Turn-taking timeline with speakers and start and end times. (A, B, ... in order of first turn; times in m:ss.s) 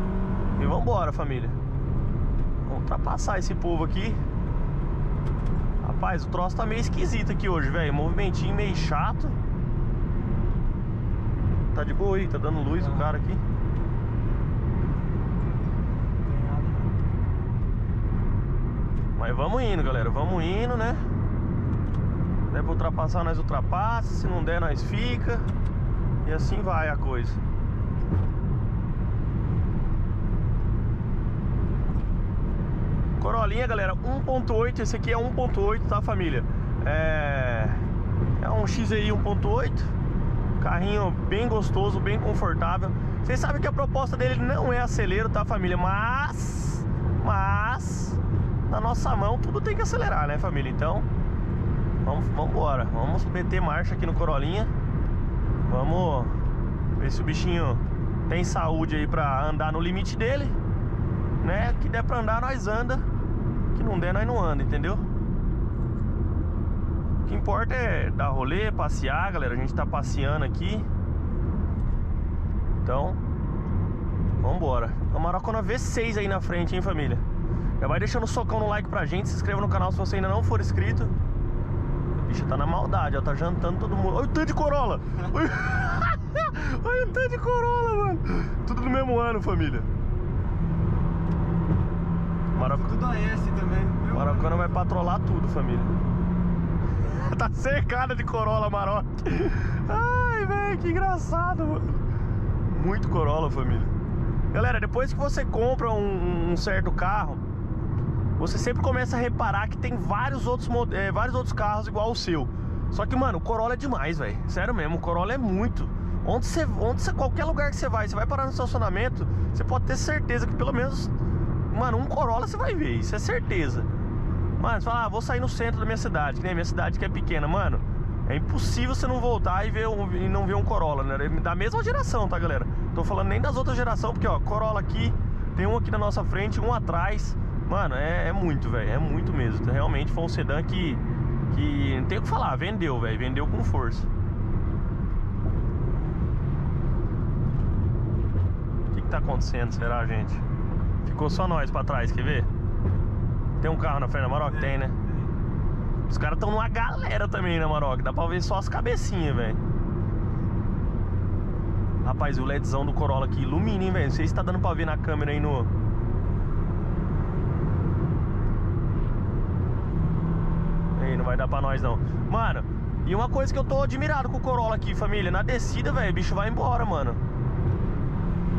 0:00.6-0:01.6 A
0:02.6-0:04.2 A
0:05.8-0:09.4 A
0:11.7-0:13.4 A
0:16.2-0:17.0 B
0:19.2-0:21.0 A
0:22.5-0:25.5 A
0:26.2-0:27.4 A
0:33.2-0:37.8 A
0:38.4-0:39.9 A
0:40.6-0:51.1 A
0:52.0-0:54.7 A
0:55.7-0:56.4 A
0:57.0-1:00.6 A
1:01.4-1:03.1 A
1:03.7-1:05.0 A
1:07.2-1:10.9 A
1:12.8-1:13.2 A
1:14.4-1:17.2 A
1:17.8-1:21.1 A
1:22.2-1:29.9 A
1:32.5-1:32.9 A
1:32.6-1:34.8 B
1:34.1-1:35.9 A
1:37.0-1:42.1 A
1:42.6-1:43.9 A
1:44.5-1:47.4 A
1:48.4-2:01.1 A
2:01.7-2:03.9 A
2:04.6-2:24.1 A
2:28.9-2:30.4 A
2:31.0-2:32.5 A
2:33.6-2:35.0 A
2:34.4-2:35.3 B
2:36.1-2:39.6 A
2:42.0-2:45.7 A
2:51.0-2:57.2 A